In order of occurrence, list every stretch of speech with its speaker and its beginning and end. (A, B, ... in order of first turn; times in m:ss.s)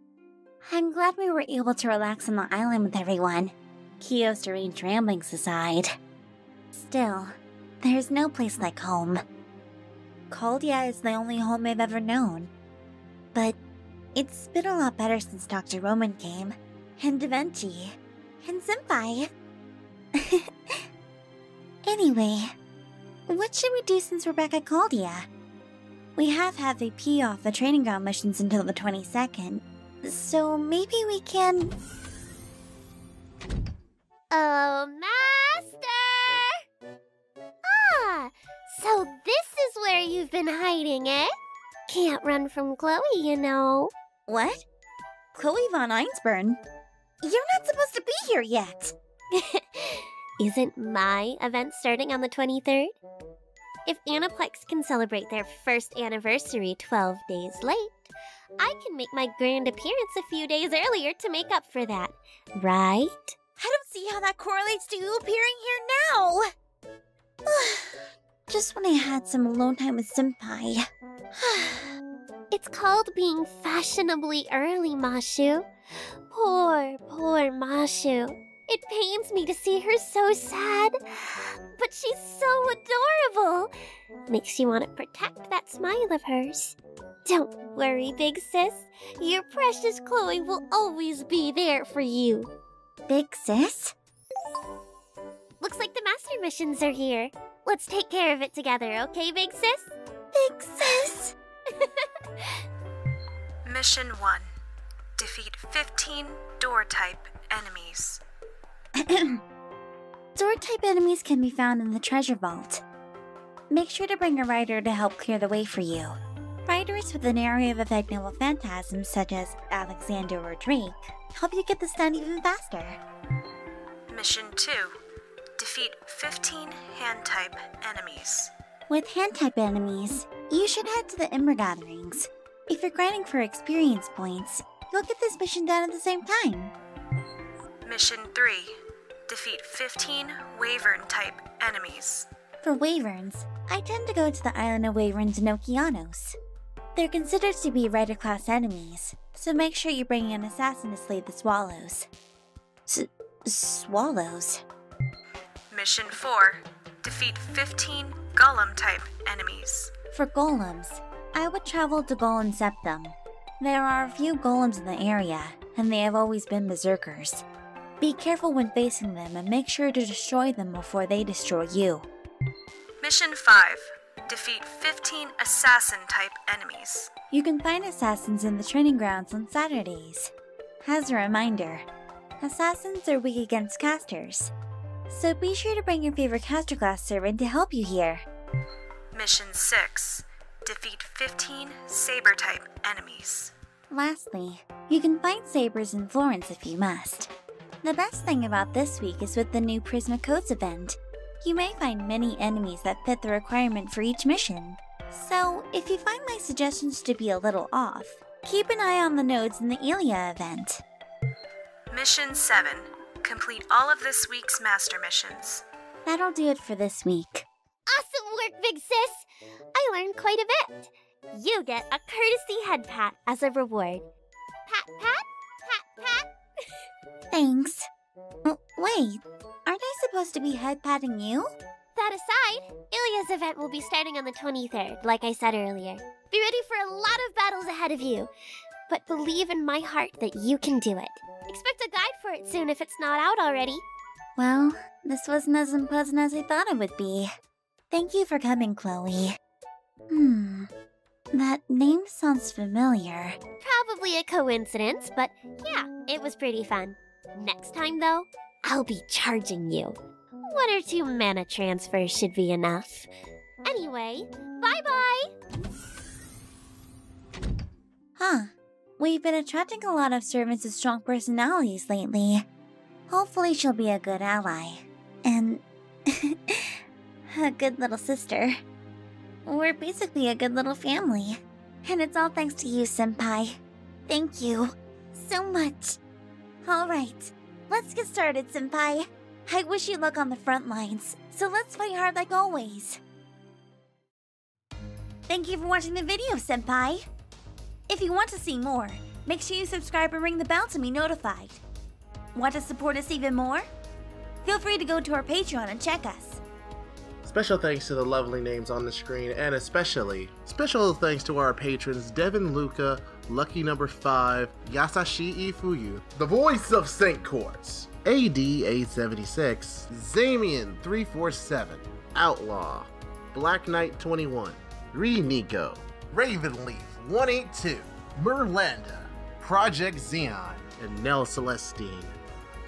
0:00.7-0:05.9 A
0:06.7-0:09.2 A
0:10.3-0:12.5 A
0:14.2-0:19.3 A
0:20.2-0:20.4 A
0:21.8-0:22.5 A
0:23.3-0:25.3 A
0:26.2-0:31.7 A
0:34.3-0:36.5 B
0:37.7-0:41.3 B
0:41.9-0:43.9 B
0:44.3-0:44.6 A
0:45.3-0:46.6 A
0:47.2-0:49.0 A
0:49.3-0:52.9 B
0:53.8-1:03.4 B
1:03.6-1:06.5 A
1:07.4-1:10.9 A
1:11.4-1:11.9 A
1:12.5-1:15.7 B
1:16.3-1:20.9 B
1:21.8-1:23.7 B
1:24.3-1:32.5 B
1:33.1-1:34.0 A
1:35.6-1:40.0 B
1:40.3-1:41.3 A
1:41.7-1:42.5 B
1:43.6-1:44.5 C
1:45.2-1:48.2 C
1:49.0-1:49.4 A
1:50.4-1:52.8 A
1:53.7-1:56.2 A
1:56.7-2:03.0 A
2:04.1-2:04.9 C
2:05.6-2:08.5 C
2:08.9-2:16.7 A
2:17.8-2:18.7 C
2:19.3-2:22.3 C
2:22.6-2:26.4 A
2:26.9-2:32.1 A
2:32.9-2:34.6 A
2:35.7-2:39.9 C
2:40.1-2:47.4 A
2:48.0-2:52.1 A
2:53.0-2:57.1 C
2:57.3-3:00.3 A
3:00.8-3:01.8 A
3:02.4-3:04.5 A
3:05.1-3:08.2 A
3:09.1-3:13.5 C
3:13.9-3:30.8 A
3:31.9-3:35.6 C
3:36.0-3:37.5 A
3:37.9-3:44.0 B
3:44.7-3:46.7 B
3:47.3-3:47.9 A
3:48.4-3:51.5 A
3:51.9-3:58.3 B
3:58.9-4:03.8 B
4:04.4-4:07.3 A
4:07.9-4:09.3 A
4:10.1-4:10.7 A
4:11.3-4:13.4 A
4:13.6-4:23.1 B
4:23.6-4:25.3 B
4:28.2-4:32.4 A
4:33.1-4:36.8 A
4:37.3-4:38.6 A
4:39.5-4:43.6 A
4:44.1-4:46.0 A
4:46.6-4:53.0 A
4:55.3-4:57.0 A
4:57.9-5:01.6 A
5:02.4-5:03.7 A
5:04.4-5:06.4 A
5:07.2-5:32.2 D